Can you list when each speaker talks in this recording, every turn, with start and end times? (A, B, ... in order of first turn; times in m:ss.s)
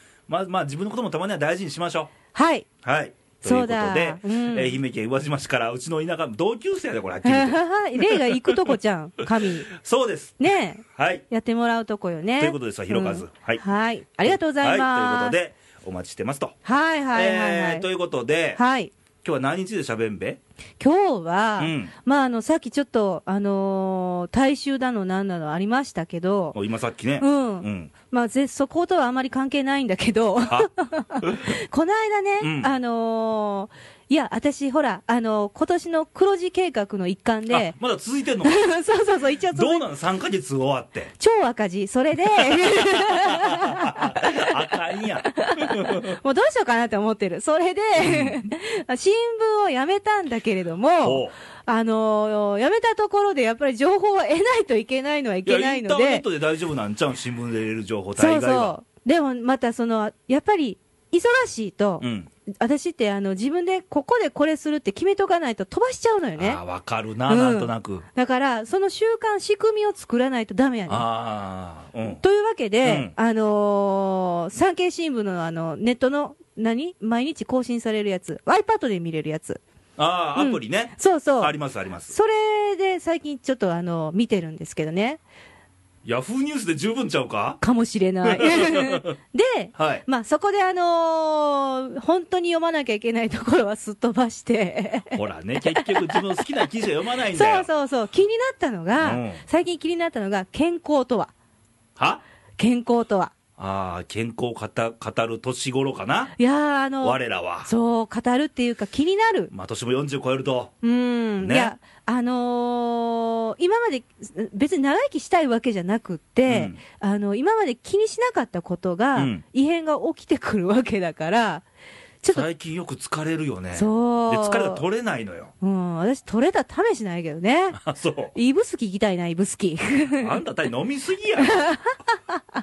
0:00.3-0:02.1 A
0:02.3-0:02.7 B
0:02.8-0:08.7 A
0:03.4-0:04.8 B
0:07.2-0:09.7 B
0:09.7-0:11.2 A
0:10.4-0:15.4 B
0:12.4-0:13.6 A
0:14.2-0:16.5 A
0:16.6-0:17.9 B
0:17.1-0:18.6 A
0:18.6-0:18.9 B
0:19.2-0:20.4 A
0:20.8-0:26.6 B
0:21.6-0:21.9 A
0:26.5-0:27.9 A
0:27.2-0:37.8 B
0:31.2-0:31.6 A
0:32.4-0:32.7 A
0:37.5-0:38.6 A
0:38.4-0:39.8 B
0:39.5-0:41.1 A
0:41.2-0:56.2 B
0:42.4-0:46.2 A
0:48.0-0:48.5 A
0:51.0-0:51.3 A
0:55.4-0:58.7 A
0:58.2-1:06.6 B
1:02.0-1:02.3 A
1:06.4-1:08.0 A
1:07.3-1:11.0 B
1:10.9-1:12.2 A
1:12.1-1:19.6 B
1:12.8-1:13.1 A
1:20.0-1:22.1 A
1:20.4-1:21.5 B
1:22.1-1:25.2 B
1:26.0-1:27.6 A
1:27.6-1:36.2 B
1:28.2-1:29.2 A
1:29.8-1:30.0 A
1:35.2-1:37.7 A
1:37.3-1:41.3 B
1:39.0-1:39.4 A
1:42.0-1:42.2 A
1:42.6-1:43.3 B
1:43.6-1:46.3 A
1:46.4-1:49.5 B
1:47.0-1:47.7 A
1:49.5-1:50.7 A
1:50.8-2:01.6 B
1:51.4-1:51.7 A
1:56.5-1:56.8 A
1:59.2-1:59.4 A
2:02.3-2:05.5 A
2:03.7-2:04.8 B
2:05.6-2:07.8 B
2:07.8-2:08.3 A
2:08.3-2:10.3 B
2:10.1-2:11.6 A
2:11.4-2:12.4 B